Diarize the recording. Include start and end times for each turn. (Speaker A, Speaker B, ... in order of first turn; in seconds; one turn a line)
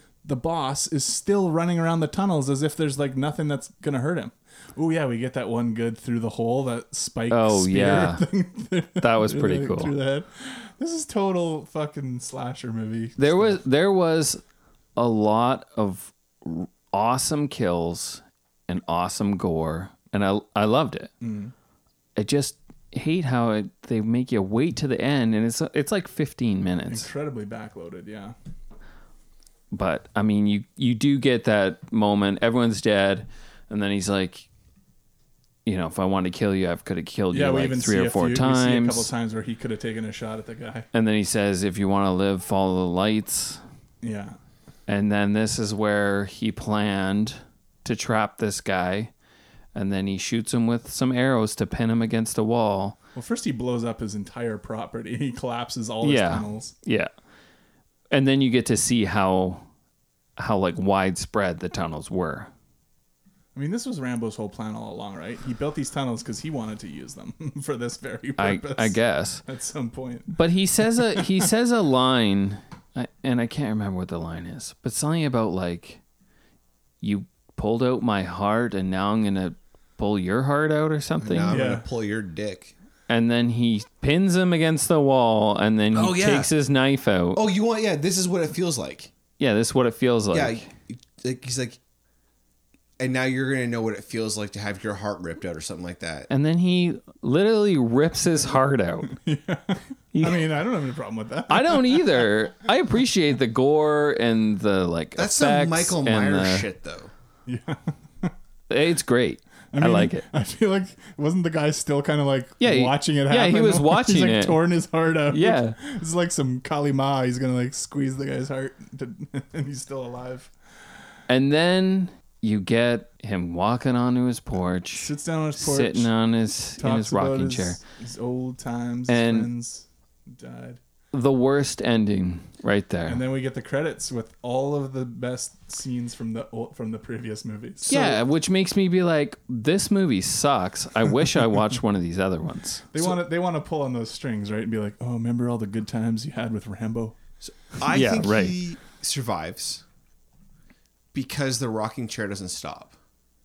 Speaker A: 0.2-13.5
Speaker B: 7.3-8.2
Speaker B: 9.0-9.9
Speaker B: 13.2-14.4
Speaker B: 15.0-21.1
Speaker A: 21.2-21.5
Speaker B: 22.2-27.1
Speaker A: 26.9-28.4
Speaker B: 29.7-34.5
Speaker B: 35.7-39.1
Speaker A: 37.3-40.9
Speaker B: 40.9-43.6
Speaker A: 44.0-44.4
Speaker B: 44.9-49.1
Speaker B: 49.8-53.0
Speaker A: 53.1-56.7
Speaker B: 56.0-57.1
Speaker B: 58.1-59.7
Speaker B: 60.4-62.5
Speaker A: 63.5-70.4
Speaker B: 68.4-69.4
Speaker B: 70.3-76.0
Speaker A: 71.0-71.5
Speaker B: 77.0-81.6
Speaker C: 81.2-82.7
Speaker A: 81.5-81.8
Speaker B: 83.1-87.4
Speaker C: 85.9-86.5
Speaker C: 87.3-89.1
Speaker B: 89.4-90.7
Speaker C: 90.3-91.8
Speaker C: 93.0-96.3
Speaker B: 96.3-99.1
Speaker A: 99.1-102.3
Speaker B: 100.1-100.5
Speaker B: 101.5-106.7
Speaker C: 105.2-107.1
Speaker A: 107.5-108.3
Speaker B: 108.7-110.3
Speaker A: 109.7-120.5
Speaker B: 112.6-114.6
Speaker B: 115.3-115.8
Speaker B: 121.3-127.8
Speaker A: 124.9-126.1
Speaker A: 126.8-130.8
Speaker B: 129.1-129.5
Speaker B: 131.1-133.2
Speaker A: 133.1-138.0
Speaker B: 137.9-142.9
Speaker C: 137.9-138.2
Speaker A: 142.9-147.2
Speaker C: 147.4-149.8
Speaker B: 147.9-148.5
Speaker C: 151.1-152.9